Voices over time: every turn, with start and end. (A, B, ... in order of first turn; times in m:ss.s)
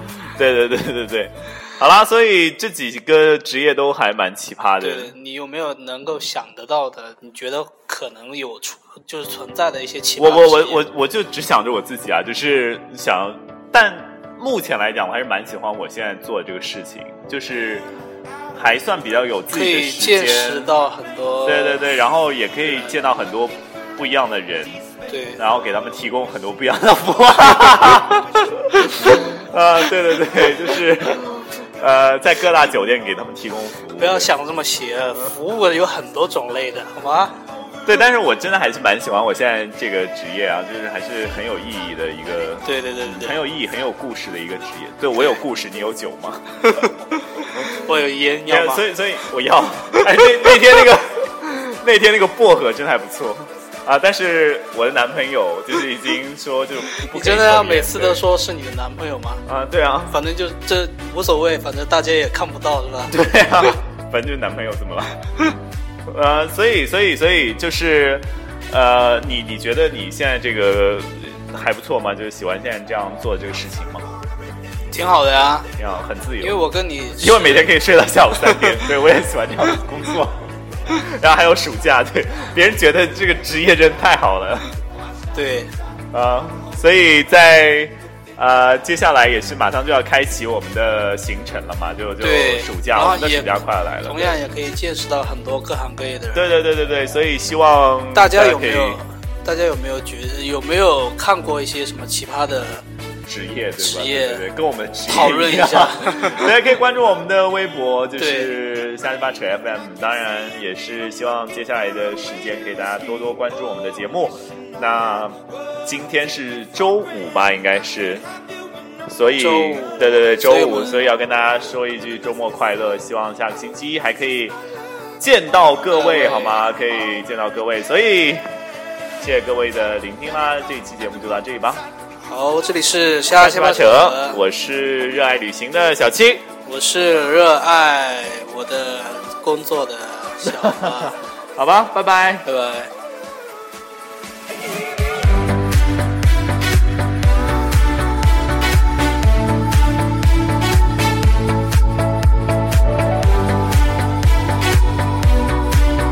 0:00.2-0:05.1 A
0:04.8-0:10.9 B
0:10.2-0:17.9 A
0:18.5-0:20.8 A
0:19.5-0:21.8 B
0:21.4-0:24.8 A
0:22.6-0:23.0 B
0:25.1-0:25.4 B
0:25.4-0:34.3 A
0:34.0-0:37.4 B
0:37.8-0:46.9 A
0:42.6-0:43.4 B
0:47.7-0:48.8 B
0:48.5-0:58.2 A
0:57.1-0:59.4 B
0:59.5-1:00.2 A
1:00.1-1:03.2 B
1:03.1-1:05.5 A
1:06.1-1:14.1 A
1:14.9-1:15.7 B
1:15.8-1:16.6 A
1:16.4-1:17.7 B
1:17.2-1:24.7 A
1:25.3-1:25.7 B
1:26.1-1:34.4 A
1:32.2-1:36.5 B
1:36.3-1:39.0 A
1:38.1-1:42.8 B
1:43.3-1:58.2 A
1:43.8-1:44.4 B
1:45.1-1:46.5 B
1:48.2-1:48.5 B
1:59.1-2:04.6 A
1:59.3-2:01.1 B
2:05.2-2:08.4 A
2:05.9-2:06.9 B
2:09.2-2:11.8 A
2:12.2-2:14.4 B
2:13.4-2:16.5 A
2:16.6-2:21.2 B
2:20.4-2:22.5 A
2:22.4-2:22.9 B